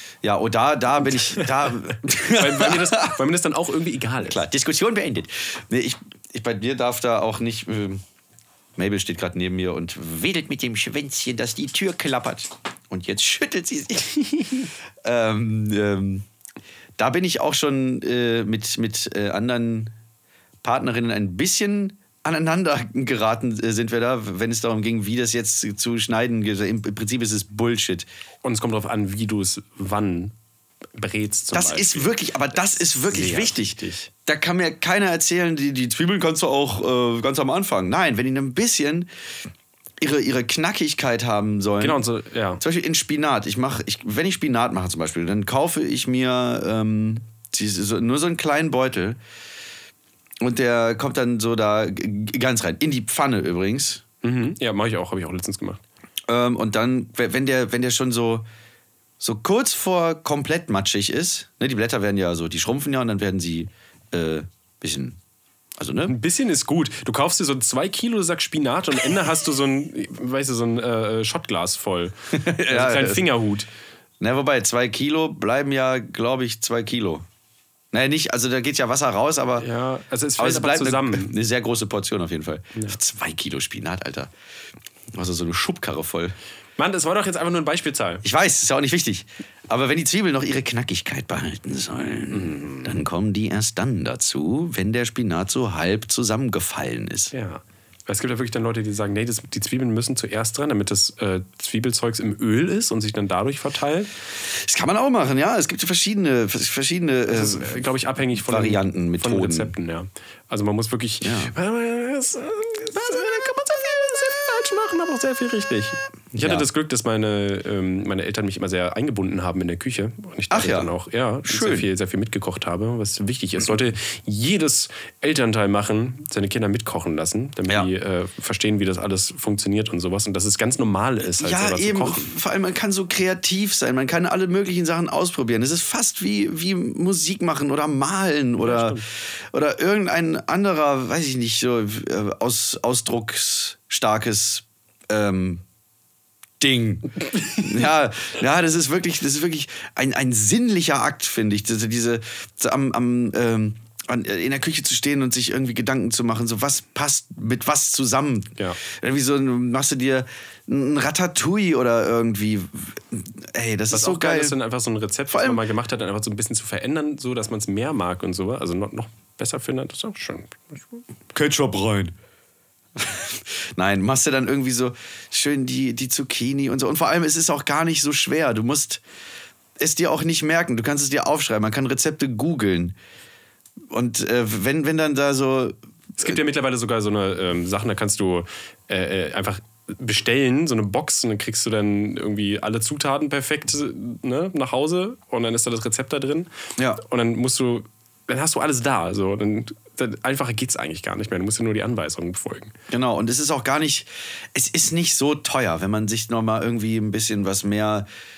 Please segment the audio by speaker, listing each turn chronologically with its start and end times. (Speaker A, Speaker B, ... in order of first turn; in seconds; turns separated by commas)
Speaker A: 0.2-3.2, Speaker B: 1.1-1.7, Speaker B: 2.3-4.4, Speaker A: 4.2-8.0, Speaker A: 8.8-16.2, Speaker A: 17.0-19.9, Speaker A: 20.6-28.1, Speaker B: 28.4-30.4, Speaker B: 30.9-32.1, Speaker A: 31.5-39.1, Speaker B: 33.1-34.1, Speaker A: 40.0-42.0, Speaker B: 41.8-42.6, Speaker A: 42.6-49.2, Speaker A: 50.4-54.0, Speaker B: 54.2-55.8, Speaker A: 56.3-58.5, Speaker A: 59.2-65.2, Speaker A: 65.8-66.2, Speaker B: 66.1-73.7, Speaker A: 72.3-73.3, Speaker A: 74.2-77.2, Speaker A: 77.9-79.7, Speaker B: 79.6-81.4, Speaker A: 80.4-84.3, Speaker A: 85.2-86.3, Speaker B: 86.8-88.2, Speaker A: 88.2-97.3, Speaker B: 92.3-93.0, Speaker B: 97.3-104.1, Speaker A: 104.5-109.7, Speaker B: 107.3-132.3, Speaker A: 111.2-111.5, Speaker A: 116.4-116.7, Speaker A: 120.5-120.9, Speaker A: 121.4-121.9, Speaker A: 131.2-139.0, Speaker B: 138.6-139.1, Speaker A: 139.5-145.6, Speaker A: 146.6-164.6, Speaker B: 163.9-171.0, Speaker A: 165.3-165.6, Speaker A: 171.3-172.1, Speaker A: 173.0-179.0, Speaker A: 179.8-182.9, Speaker A: 183.9-186.4, Speaker B: 186.2-202.7, Speaker A: 196.8-197.0, Speaker A: 202.9-208.1